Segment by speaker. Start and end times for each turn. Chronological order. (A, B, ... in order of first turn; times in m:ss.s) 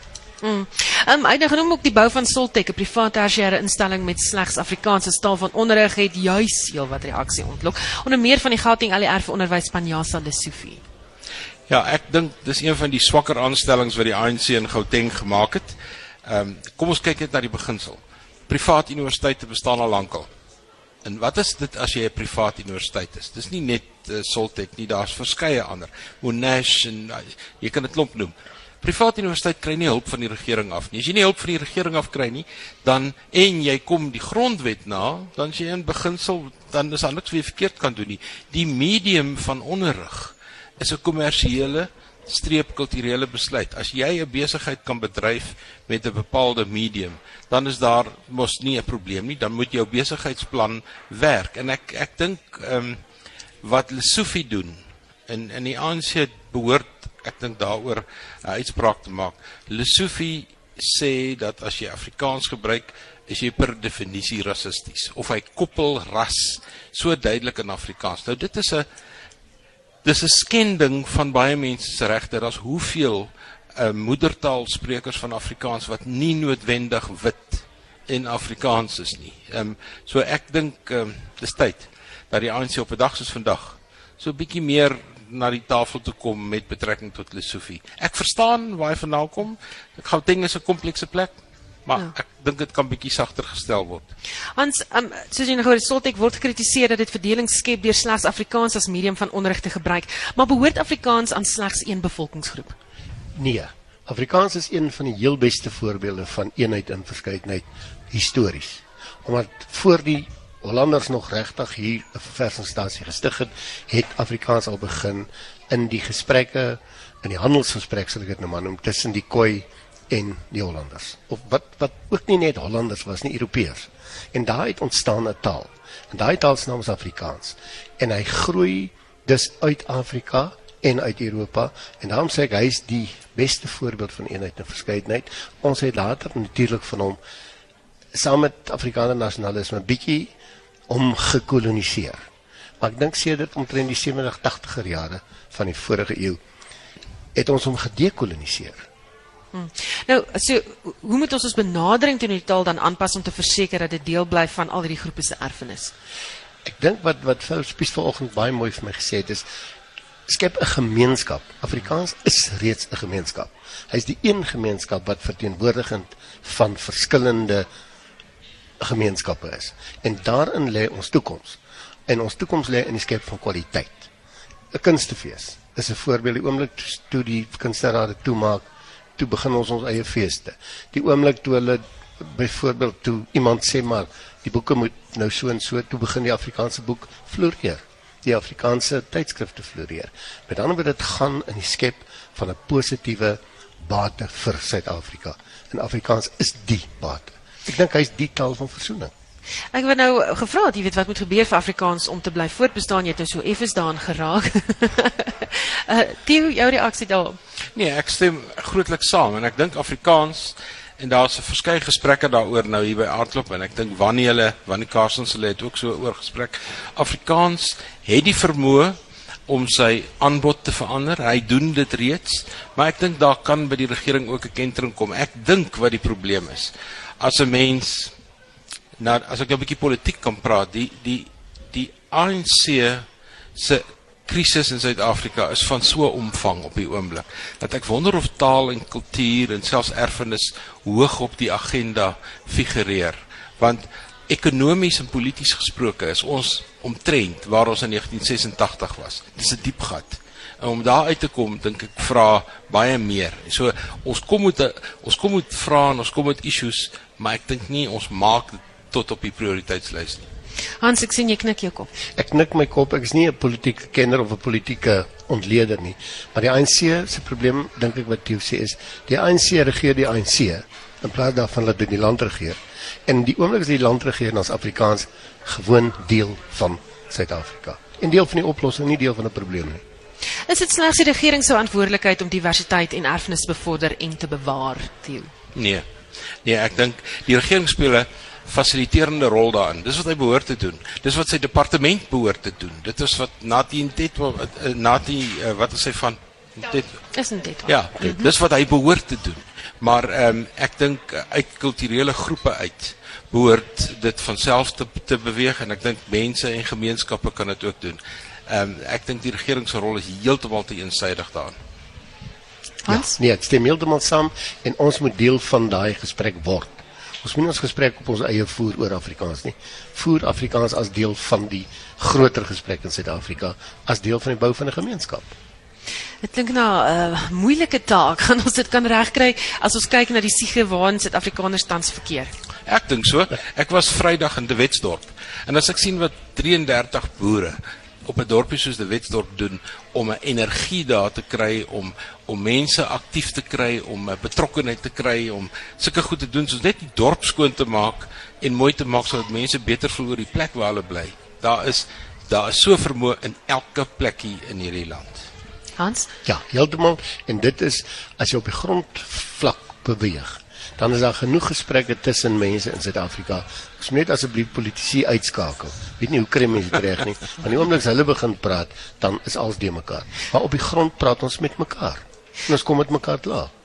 0:00.4-0:10.8 A
0:11.7-0:20.3 B
0:21.0-0:53.0 B
0:53.6-1:08.9 B
1:10.0-1:34.1 B
1:34.6-1:42.8 A
1:43.4-2:17.2 C
2:18.1-2:20.3 C
2:20.9-2:22.2 C
2:22.8-2:26.4 C
2:27.4-2:28.8 C
2:29.5-2:35.9 A
2:36.6-2:39.4 C
2:40.3-2:47.7 C
2:48.8-2:54.1 C
2:54.7-2:58.6 C
2:59.2-3:19.1 C
3:19.7-3:27.4 A
3:27.8-3:39.0 B
3:39.5-3:48.1 B
3:49.0-4:20.3 B
4:20.8-4:21.9 A
4:22.2-4:39.8 C
4:40.5-4:45.3 A
4:45.6-4:45.8 B
4:46.4-4:57.0 B
4:57.1-4:58.3 A
4:57.6-5:11.6 B
5:12.8-5:13.2 A
5:12.9-5:25.3 C
5:26.2-5:32.3 A
5:32.7-5:55.3 B
5:55.8-5:56.1 A
5:56.2-6:13.5 C